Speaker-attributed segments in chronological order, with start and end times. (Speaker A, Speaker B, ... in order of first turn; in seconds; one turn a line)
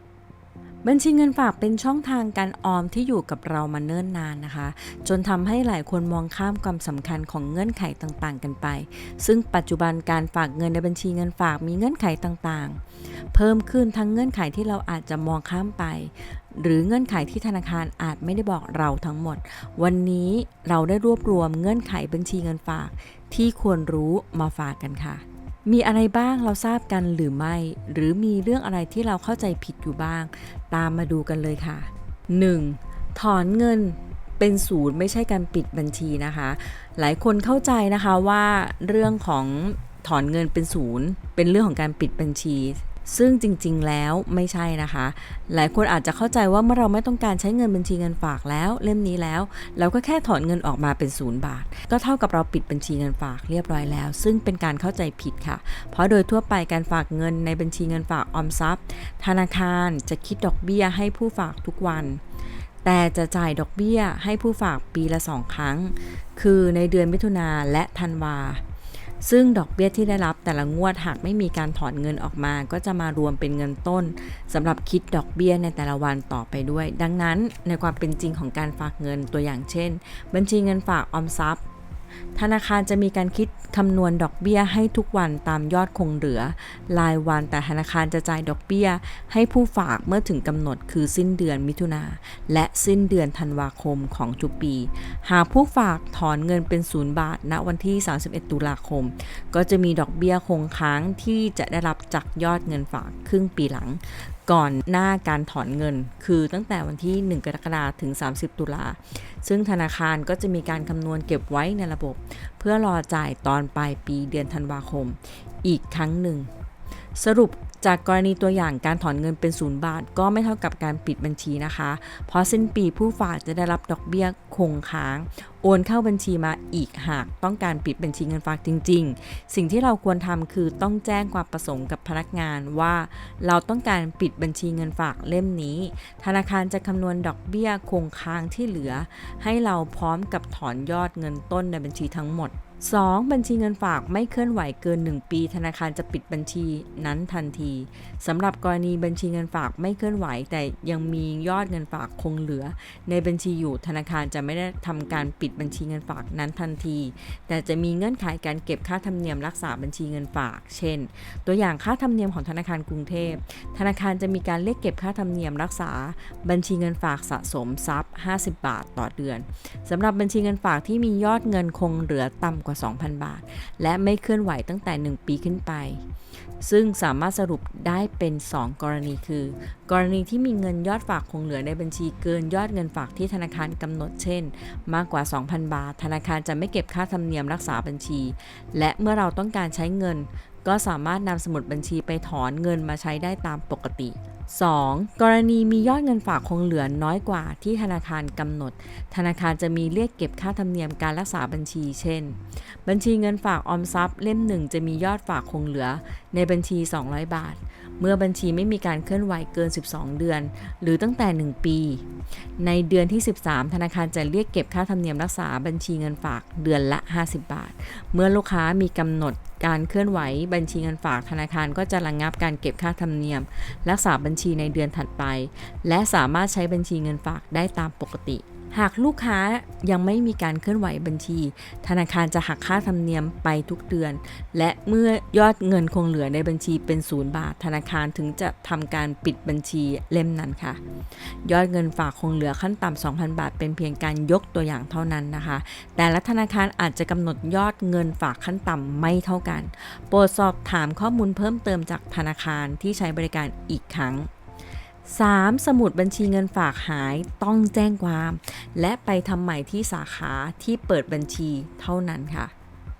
Speaker A: 0.8-12.8
Speaker A: 13.3-62.2
Speaker A: 62.8-68.6
Speaker A: 69.2-81.6
Speaker A: 82.3-116.5
Speaker A: 117.1-176.0
Speaker A: 176.6-254.3
Speaker A: 255.1-262.5